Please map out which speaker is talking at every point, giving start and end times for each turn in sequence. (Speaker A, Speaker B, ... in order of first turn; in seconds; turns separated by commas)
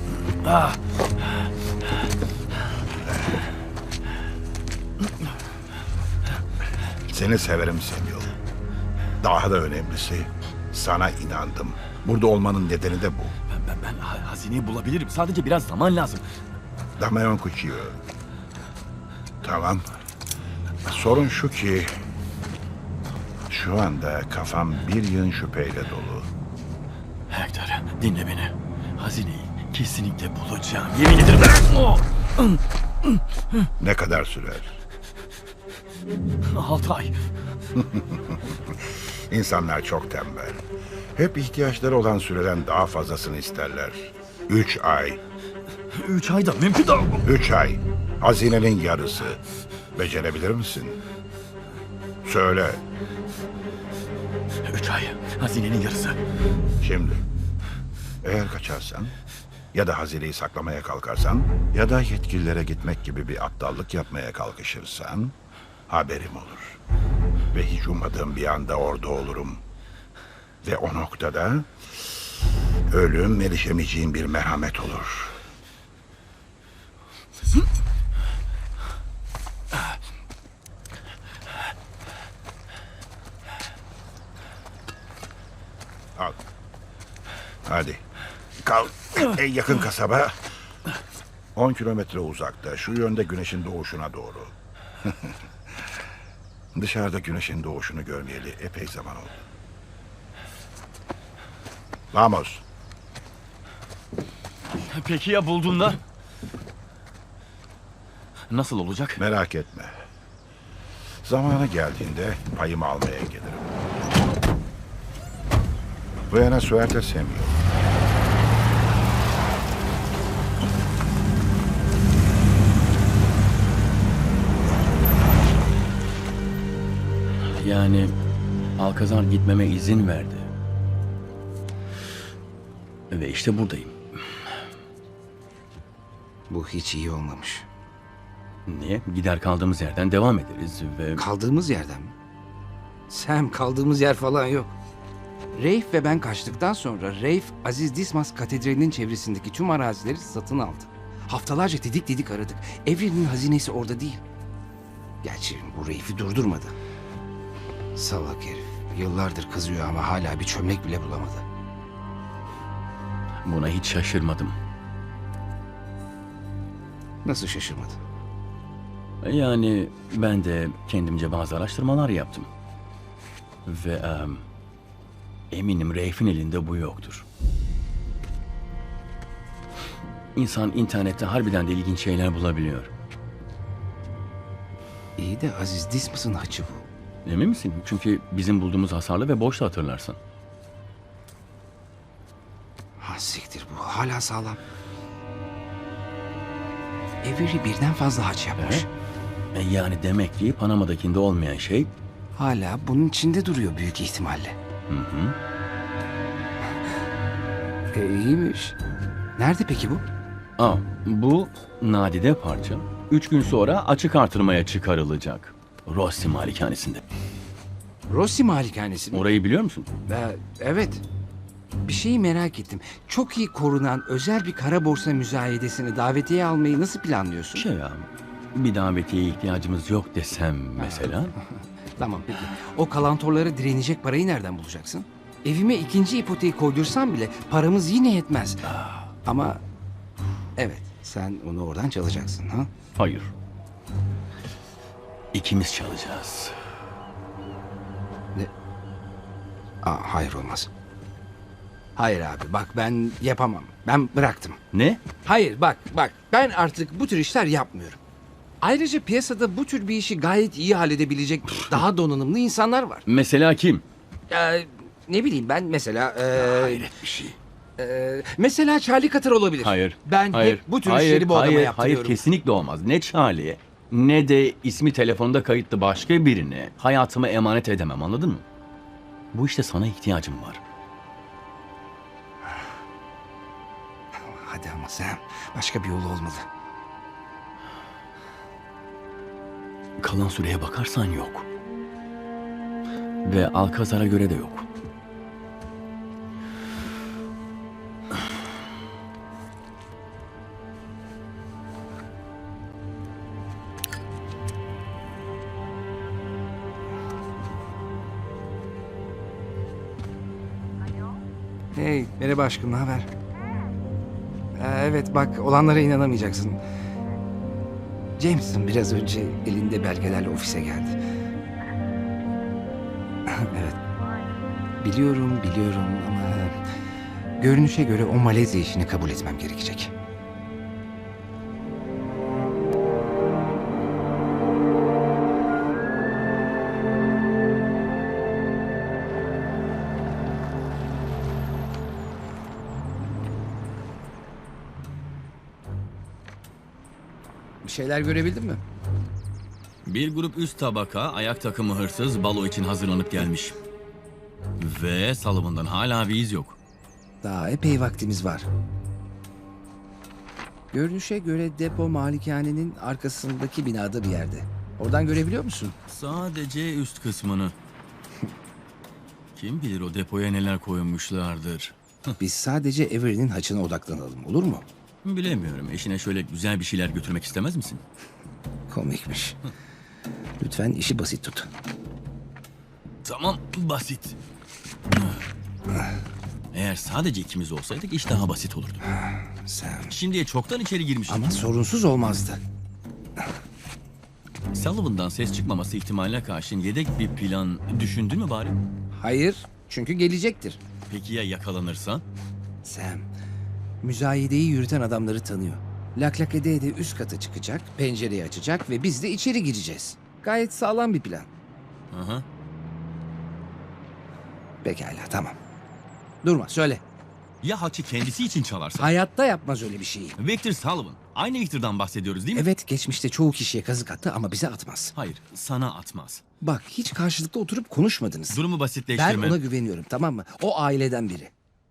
Speaker A: 0.4-0.8, Speaker B: 7.1-8.3, Speaker B: 9.2-13.3, Speaker A: 13.5-16.2, Speaker B: 17.0-18.0, Speaker B: 19.4-19.9, Speaker B: 20.9-22.0, Speaker B: 23.5-26.3, Speaker A: 27.3-33.7, Speaker B: 33.8-34.8, Speaker A: 36.5-37.2, Speaker B: 37.8-40.6, Speaker B: 41.1-45.2, Speaker A: 45.9-47.3, Speaker B: 47.3-49.4, Speaker B: 49.9-51.0, Speaker B: 52.2-52.8, Speaker A: 54.6-56.2, Speaker B: 56.8-57.2, Speaker B: 58.2-59.1, Speaker B: 59.7-65.3, Speaker B: 65.9-66.8, Speaker B: 67.5-69.6, Speaker B: 70.6-71.8, Speaker B: 72.9-75.4, Speaker B: 87.7-88.0, Speaker B: 88.6-90.4, Speaker B: 91.5-95.3, Speaker B: 96.8-99.3, Speaker B: 102.1-102.6, Speaker A: 104.8-106.0, Speaker A: 108.5-109.2, Speaker B: 109.2-110.0, Speaker B: 111.2-113.8, Speaker B: 116.3-117.6, Speaker A: 127.5-128.1, Speaker A: 128.8-130.5, Speaker A: 133.1-134.0, Speaker C: 136.5-137.7, Speaker A: 138.7-141.2, Speaker C: 141.2-142.1, Speaker C: 143.1-144.8, Speaker C: 145.5-154.2, Speaker C: 155.2-156.8, Speaker C: 157.9-161.4, Speaker A: 163.4-164.6, Speaker C: 167.2-168.0, Speaker A: 169.2-172.5, Speaker A: 173.7-174.4, Speaker A: 175.5-177.2, Speaker A: 180.4-182.9, Speaker C: 185.2-186.8, Speaker A: 187.3-190.2, Speaker C: 193.0-194.6, Speaker C: 197.2-198.9, Speaker A: 198.6-198.9, Speaker A: 199.5-201.9, Speaker C: 202.3-204.6, Speaker A: 204.9-205.4, Speaker C: 207.9-208.8, Speaker C: 209.4-210.1, Speaker A: 210.6-217.0, Speaker C: 218.1-219.3, Speaker A: 219.1-219.9, Speaker C: 220.1-221.0, Speaker C: 221.8-227.7, Speaker A: 227.5-231.3, Speaker C: 230.8-231.1, Speaker C: 232.0-238.7, Speaker A: 238.7-239.1, Speaker C: 239.2-239.6, Speaker C: 240.6-242.7, Speaker A: 243.0-243.3, Speaker A: 245.3-246.6, Speaker C: 249.8-250.7, Speaker C: 252.0-254.6, Speaker A: 254.7-255.0, Speaker C: 255.2-258.0, Speaker C: 258.6-263.1, Speaker A: 263.1-263.9, Speaker C: 264.3-266.9, Speaker A: 266.4-267.4, Speaker C: 267.8-272.2, Speaker A: 269.6-278.4, Speaker A: 279.3-280.6, Speaker C: 284.2-286.5, Speaker A: 290.0-291.5, Speaker A: 293.2-294.7, Speaker C: 311.7-313.1, Speaker C: 314.6-316.6, Speaker C: 318.2-321.0, Speaker C: 323.3-323.8, Speaker C: 324.8-326.6, Speaker C: 327.4-329.9, Speaker C: 347.6-348.6, Speaker A: 349.9-353.6, Speaker A: 354.6-356.6, Speaker C: 357.2-358.5, Speaker C: 360.7-365.8, Speaker A: 365.9-367.6, Speaker A: 369.4-372.1, Speaker C: 372.2-374.6, Speaker A: 375.0-377.8, Speaker C: 378.7-379.4, Speaker C: 380.4-381.5, Speaker A: 383.1-384.2, Speaker A: 386.5-388.8, Speaker C: 388.9-389.9, Speaker A: 389.9-391.3, Speaker C: 391.1-392.4, Speaker A: 394.5-398.6, Speaker C: 399.0-400.6, Speaker A: 400.9-402.0, Speaker C: 402.6-403.1, Speaker C: 403.8-411.3, Speaker A: 411.9-412.2, Speaker C: 414.6-415.4, Speaker C: 416.2-416.8, Speaker A: 417.4-418.9, Speaker C: 418.8-420.2, Speaker A: 420.2-422.5, Speaker C: 422.4-424.9, Speaker A: 425.0-426.2, Speaker C: 426.4-431.3, Speaker A: 428.3-429.4